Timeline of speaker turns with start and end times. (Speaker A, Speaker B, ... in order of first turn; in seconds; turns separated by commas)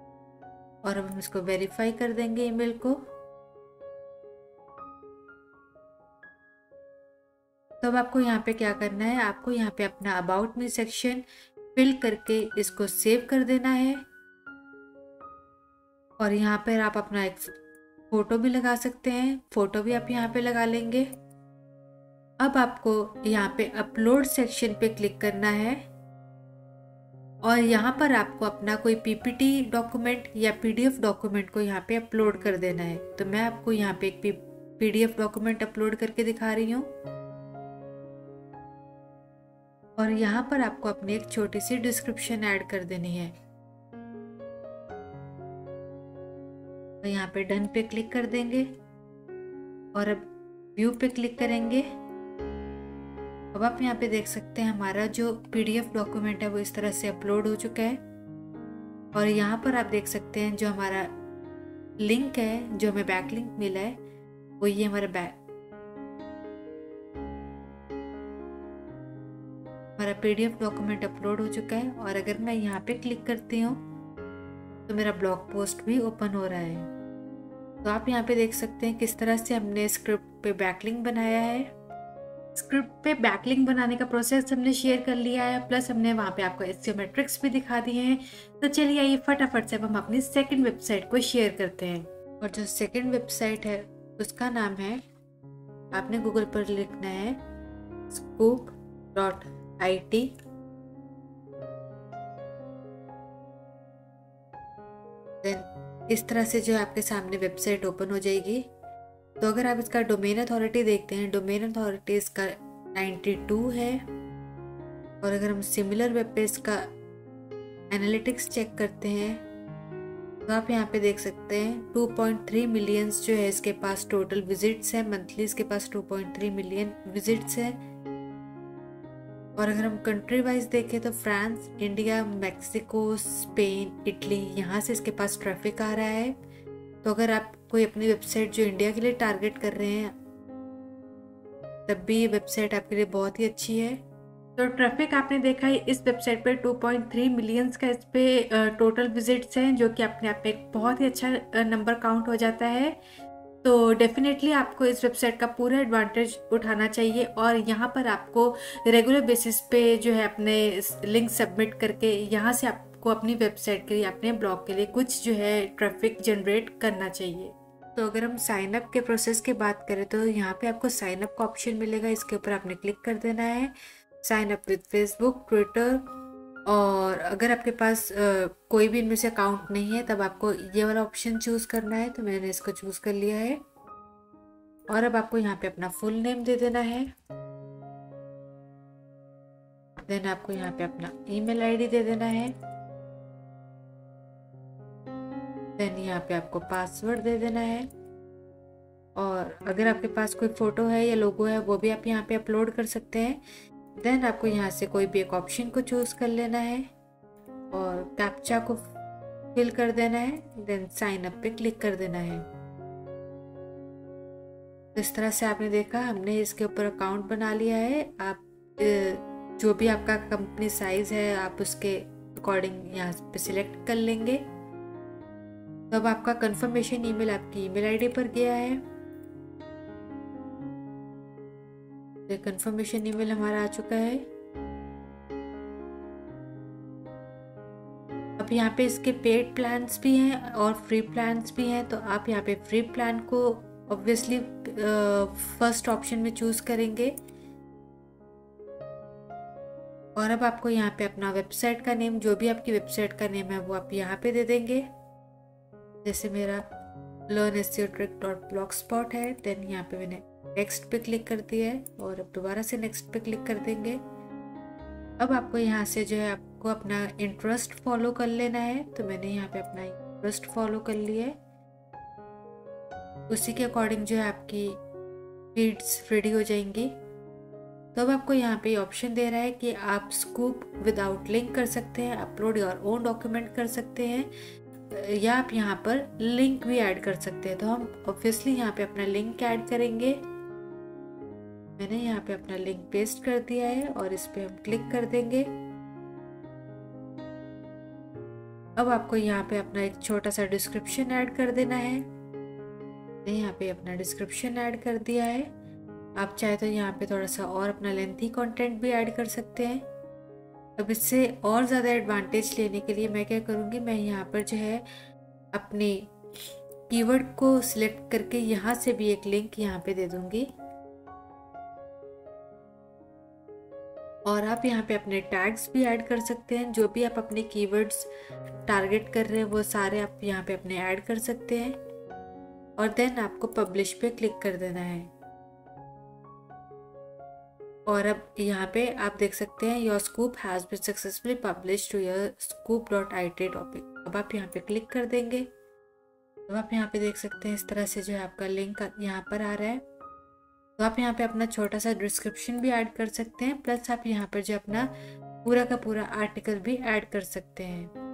Speaker A: 0.8-3.0, Speaker A: 7.8-11.2, Speaker A: 11.8-14.0, Speaker A: 16.2-17.6, Speaker A: 18.1-21.1, Speaker A: 22.4-25.8, Speaker A: 27.4-36.9, Speaker A: 40.0-43.3, Speaker A: 47.0-48.7, Speaker A: 49.9-51.9, Speaker A: 53.5-58.0, Speaker A: 59.1-61.1, Speaker A: 62.0-64.0, Speaker A: 64.6-65.3, Speaker A: 70.0-73.8, Speaker A: 74.9-76.9, Speaker A: 77.8-81.7, Speaker A: 82.5-95.0, Speaker A: 95.9-97.4, Speaker A: 98.1-100.3, Speaker A: 105.4-108.7, Speaker A: 109.4-114.0, Speaker A: 115.2-116.9, Speaker A: 117.9-119.4, Speaker A: 120.5-127.8, Speaker A: 129.6-136.3, Speaker A: 137.0-140.1, Speaker A: 141.9-144.0, Speaker A: 144.6-153.0, Speaker A: 153.6-176.0, Speaker A: 176.7-183.6, Speaker A: 184.9-187.1, Speaker A: 190.1-192.5, Speaker A: 195.8-197.9, Speaker A: 199.2-203.4, Speaker A: 204.0-206.8, Speaker A: 207.7-208.9, Speaker A: 209.5-212.5, Speaker A: 214.9-224.4, Speaker A: 225.9-228.8, Speaker A: 232.3-234.2, Speaker A: 238.4-247.1, Speaker A: 250.2-254.8, Speaker A: 256.0-256.7, Speaker A: 257.3-264.0, Speaker A: 265.2-271.4, Speaker A: 273.3-274.8, Speaker A: 275.5-276.9, Speaker A: 277.9-284.3, Speaker A: 284.9-290.2, Speaker A: 291.8-295.5, Speaker A: 298.8-302.1, Speaker A: 303.2-305.5, Speaker A: 306.1-309.8, Speaker A: 310.8-314.9, Speaker A: 315.5-316.1, Speaker A: 316.9-320.5, Speaker A: 324.2-328.1, Speaker A: 328.7-331.8, Speaker A: 332.8-335.1, Speaker A: 337.9-345.5, Speaker A: 346.5-349.8, Speaker A: 350.8-354.9, Speaker A: 355.4-357.9